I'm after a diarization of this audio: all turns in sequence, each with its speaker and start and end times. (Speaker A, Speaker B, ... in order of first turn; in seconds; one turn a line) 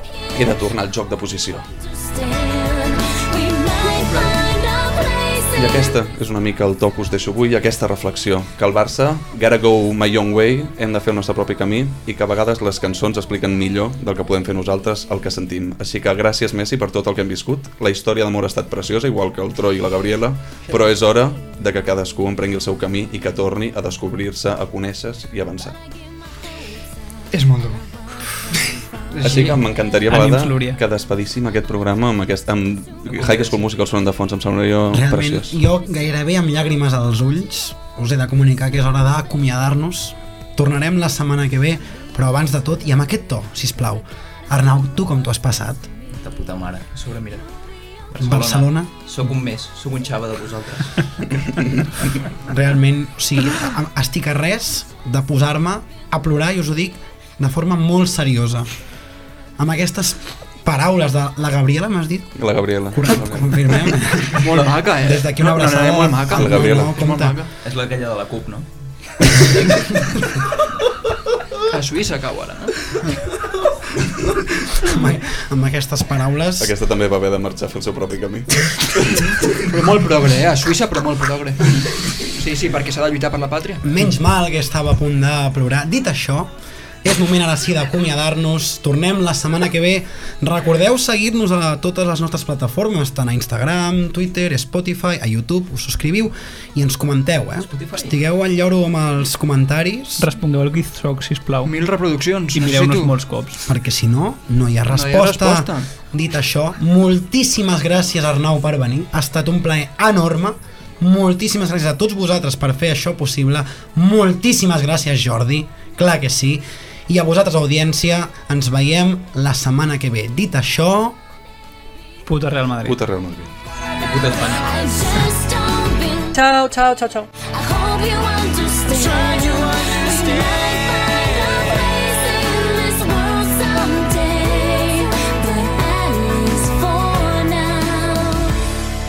Speaker A: 0.3-1.7
Speaker B: 1.8-6.0
Speaker C: 3.8-4.3
Speaker A: 5.5-25.8
Speaker C: 27.3-27.8
Speaker C: 29.1-29.6
Speaker A: 29.2-35.6
Speaker D: 30.1-30.8
Speaker E: 33.1-33.6
Speaker F: 34.9-45.9
Speaker E: 46.1-47.4
Speaker E: 48.1-51.0
Speaker F: 48.2-48.9
Speaker F: 52.5-58.7
Speaker F: 59.6-62.4
Speaker A: 62.4-63.7
Speaker F: 62.9-67.4
Speaker C: 64.3-67.5
Speaker A: 66.3-67.1
Speaker E: 67.6-68.7
Speaker E: 69.3-70.0
Speaker C: 71.7-72.8
Speaker F: 74.7-76.7
Speaker A: 76.6-79.3
Speaker C: 79.7-81.8
Speaker C: 82.3-83.8
Speaker F: 83.8-86.5
Speaker F: 87.0-100.3
Speaker E: 97.7-98.1
Speaker D: 100.2-101.7
Speaker C: 101.6-103.1
Speaker D: 102.5-103.6
Speaker F: 103.7-121.2
Speaker C: 104.9-105.9
Speaker D: 122.2-123.0
Speaker A: 122.8-123.5
Speaker E: 124.0-124.8
Speaker B: 124.5-126.4
Speaker C: 126.3-127.3
Speaker B: 127.4-138.6